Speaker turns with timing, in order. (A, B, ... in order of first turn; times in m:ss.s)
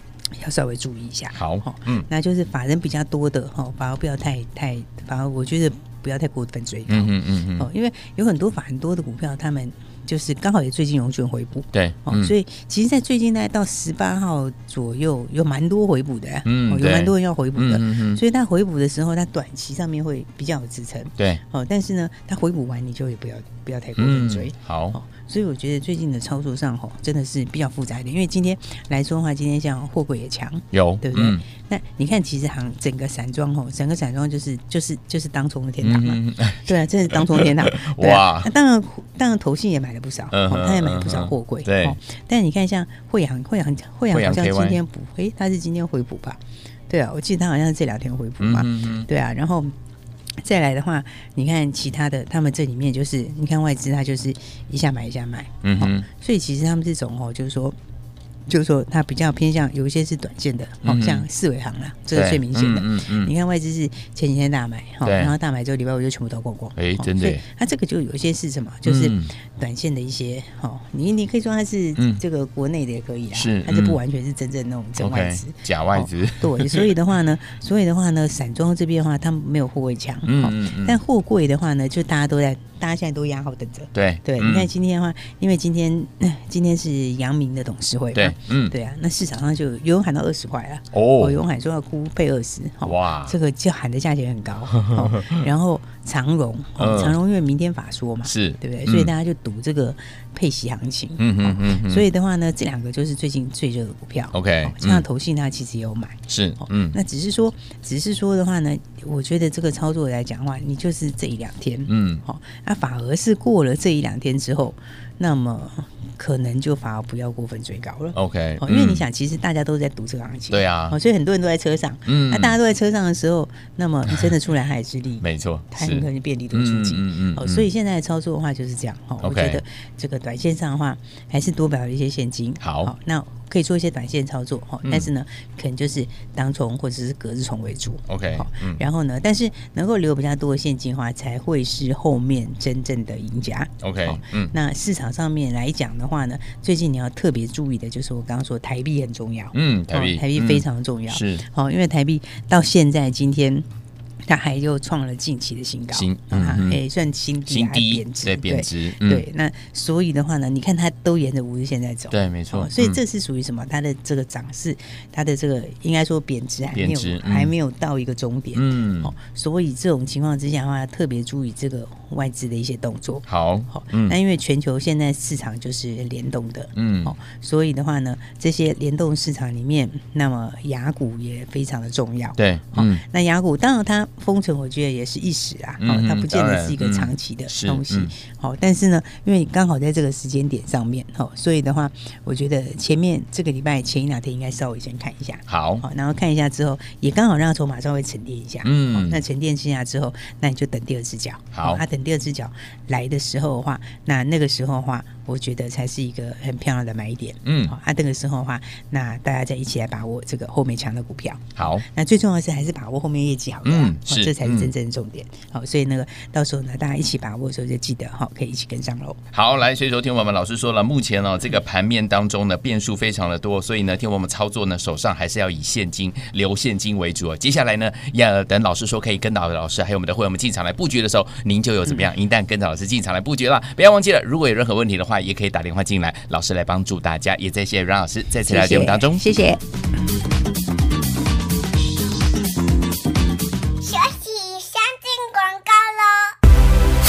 0:00.4-0:49.7 A
0:01.3-0:02.1 B
0:06.9-0:07.7 B
0:11.7-0:12.3 B
0:16.4-0:18.2 B
0:21.2-0:21.4 B
0:24.0-0:25.0 B
0:30.7-0:31.4 B
0:35.8-0:38.5 B
0:40.3-0:42.0 B
0:44.1-0:44.8 B
0:48.4-0:49.1 B
0:50.4-0:57.7 A
0:55.6-0:56.0 B
0:58.5-2:33.6 A
1:00.8-1:01.3 B
1:02.1-1:03.3 B
1:05.0-1:05.3 B
1:06.8-1:07.4 B
1:08.8-1:09.3 B
1:13.3-1:14.0 B
1:15.0-1:16.9 B
1:20.2-1:21.0 B
1:23.9-1:24.7 B
1:28.1-1:28.7 B
1:30.9-1:31.4 B
1:32.8-1:33.4 B
1:34.8-1:35.4 B
1:36.8-1:37.2 B
1:38.2-1:39.1 B
1:41.2-1:42.1 B
1:44.3-1:45.0 B
1:46.3-1:47.0 B
1:51.9-1:52.2 B
1:58.1-1:59.0 B
2:00.5-2:01.0 B
2:02.0-2:02.6 B
2:05.2-2:07.7 B
2:09.2-2:09.6 B
2:12.6-2:12.9 B
2:14.8-2:15.1 B
2:18.1-2:18.8 B
2:23.8-2:24.5 B
2:29.5-2:31.4 B
2:34.2-3:39.2 A
2:35.9-2:36.8 B
2:37.5-2:39.2 B
2:42.1-2:43.0 B
2:46.7-2:47.5 B
2:48.5-2:49.1 B
2:53.3-2:54.2 B
2:56.8-2:57.1 B
3:02.4-3:03.0 B
3:05.8-3:08.1 B
3:15.5-3:15.8 B
3:18.6-3:19.2 B
3:21.5-3:21.8 B
3:27.4-3:27.7 B
3:31.6-3:31.8 B
3:33.6-3:34.7 B
3:39.3-3:59.2 B
3:58.5-3:59.6 A
4:03.8-4:06.3 C